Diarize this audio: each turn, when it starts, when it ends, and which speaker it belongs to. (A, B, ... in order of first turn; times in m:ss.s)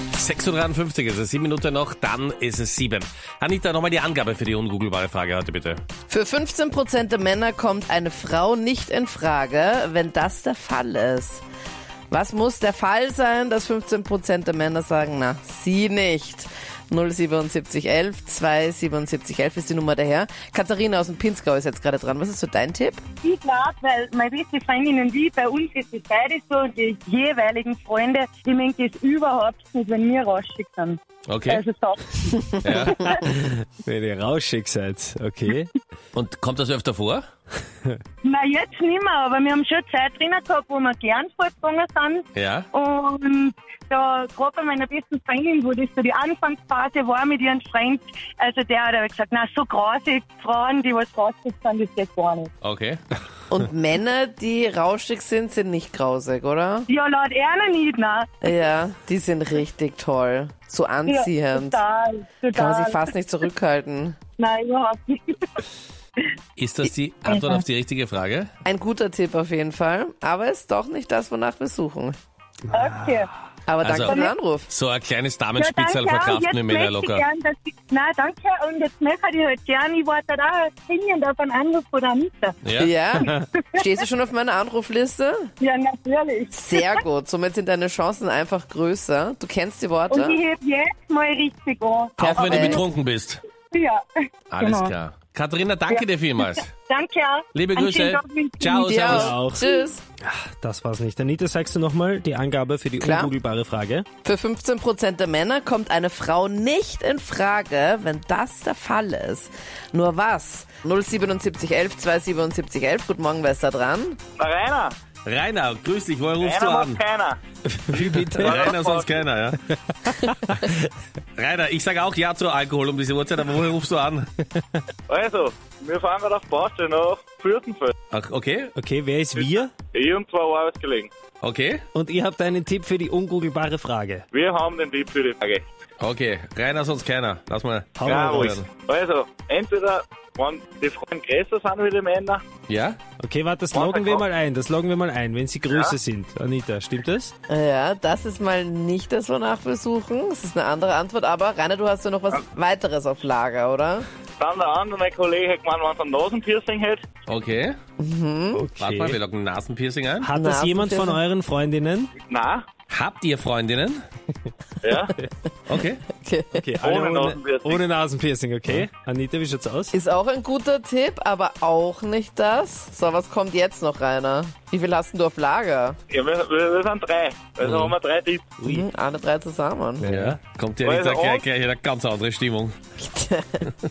0:00.2-0:05.8 A
0:06.1-0:11.4 B
0:12.1-0:23.0 B
0:23.2-0:33.2 C
0:31.3-0:31.6 A
0:32.6-0:33.0 A
0:33.2-0:35.7 D
0:36.1-0:37.2 A
0:38.2-0:52.5 C
0:42.3-0:42.7 A
0:52.6-0:53.0 A
0:53.5-0:56.9 B
0:56.9-0:58.3 C
0:58.4-1:01.8 B
1:01.1-1:03.1 C
1:02.5-1:04.2 B
1:04.4-1:05.6 C
1:06.6-1:08.5 A
1:07.3-1:07.6 C
1:08.6-1:12.2 B
1:12.7-1:13.3 C
1:13.7-1:14.7 B
1:13.8-1:17.2 A
1:14.0-1:14.3 C
1:15.6-1:22.6 C
1:22.6-1:22.9 A
1:22.8-1:25.4 B
1:25.6-1:27.0 C
1:26.5-1:30.4 B
1:30.1-1:32.8 C
1:32.2-1:33.4 A
1:32.2-1:32.8 B
1:33.7-1:34.0 C
1:34.5-1:36.7 A
1:34.6-1:34.9 C
1:35.9-1:38.9 C
1:37.5-1:39.4 A
1:38.8-1:40.0 B
1:39.1-1:39.6 D
1:39.6-1:39.8 C
1:40.2-1:44.0 D
1:43.0-1:43.3 B
1:44.2-1:54.2 B
1:54.4-1:54.9 E
1:55.2-1:57.0 A
1:56.4-1:57.4 E
1:57.7-1:58.7 D
1:57.9-1:59.6 A
1:58.0-1:59.2 E
2:00.1-2:00.6 D
2:01.4-2:04.3 A
2:05.1-2:07.9 E
2:08.1-2:08.7 A
2:08.7-2:09.7 D
2:09.3-2:11.1 E
2:11.4-2:11.8 A
2:11.9-2:14.2 D
2:14.3-2:15.6 E
2:16.0-2:18.7 A
2:18.0-2:18.6 D
2:18.0-2:22.4 E
2:22.7-2:23.0 A
2:23.2-2:27.3 D
2:23.7-2:24.2 E
2:27.5-2:34.0 B
2:34.4-2:37.0 E
2:37.3-2:37.8 A
2:38.0-2:38.6 B
2:38.5-2:39.2 D
2:38.8-2:40.3 A
2:40.2-2:42.1 D
2:40.3-2:41.2 B
2:42.3-2:42.6 E
2:42.9-2:44.0 A
2:44.8-2:45.1 E
2:45.7-2:46.0 A
2:46.2-2:46.6 B
2:46.5-2:50.0 D
2:46.8-2:47.8 E
2:49.9-2:56.0 B
2:56.1-2:58.5 E
2:57.6-2:57.9 A
2:58.6-2:58.8 D
2:58.6-3:00.1 B
3:00.0-3:00.4 D
3:00.1-3:02.8 A
3:00.8-3:01.4 E
3:03.0-3:03.7 B